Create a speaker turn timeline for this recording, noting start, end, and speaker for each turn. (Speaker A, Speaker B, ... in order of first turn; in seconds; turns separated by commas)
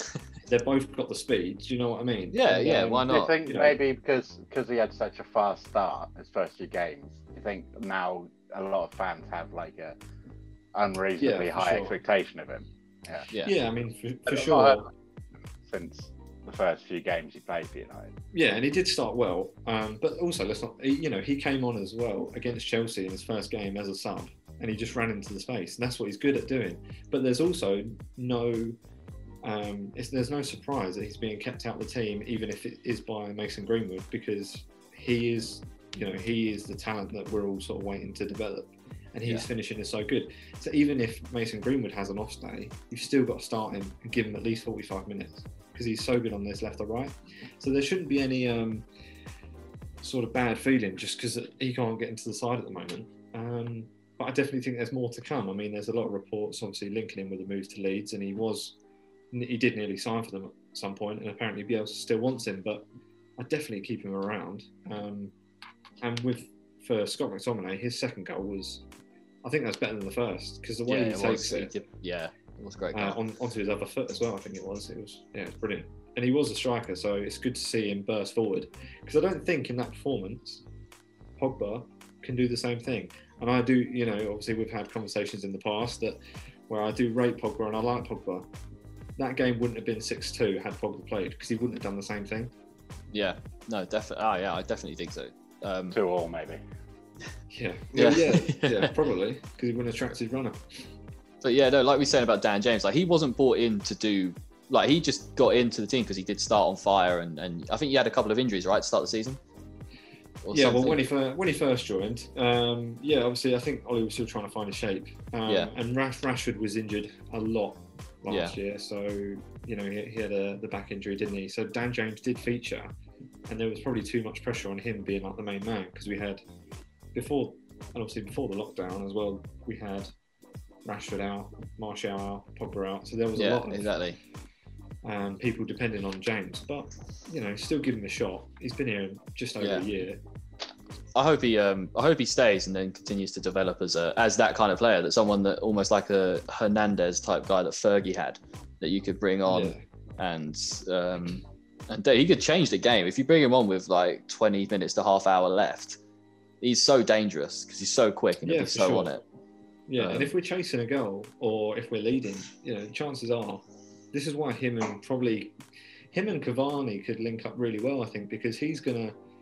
Speaker A: 0.5-3.8, Speaker B: 2.3-3.4, Speaker C: 3.1-10.0, Speaker C: 10.8-13.3, Speaker A: 11.2-12.0, Speaker A: 13.4-14.9, Speaker C: 14.3-14.8, Speaker C: 15.7-18.1, Speaker A: 18.3-28.8, Speaker A: 29.4-48.9, Speaker A: 50.0-58.8, Speaker A: 59.3-62.9, Speaker A: 63.4-65.3, Speaker A: 66.0-68.8, Speaker A: 69.4-71.7, Speaker B: 70.9-73.2, Speaker A: 72.9-80.6, Speaker A: 81.4-88.5, Speaker A: 89.2-92.5, Speaker B: 93.1-96.0, Speaker C: 95.9-96.6, Speaker A: 97.5-100.6, Speaker B: 98.0-98.9, Speaker B: 101.4-109.4, Speaker B: 110.4-111.0, Speaker A: 110.5-122.9, Speaker B: 115.5-115.7, Speaker B: 118.3-118.6, Speaker A: 123.5-126.4, Speaker A: 127.1-130.1, Speaker A: 130.8-134.0, Speaker B: 133.4-134.2, Speaker A: 135.0-140.2, Speaker B: 139.6-139.9, Speaker B: 141.2-156.0, Speaker A: 149.5-149.8, Speaker B: 156.6-159.2, Speaker A: 158.4-159.2, Speaker A: 159.9-165.6, Speaker B: 160.0-160.3, Speaker A: 166.1-169.2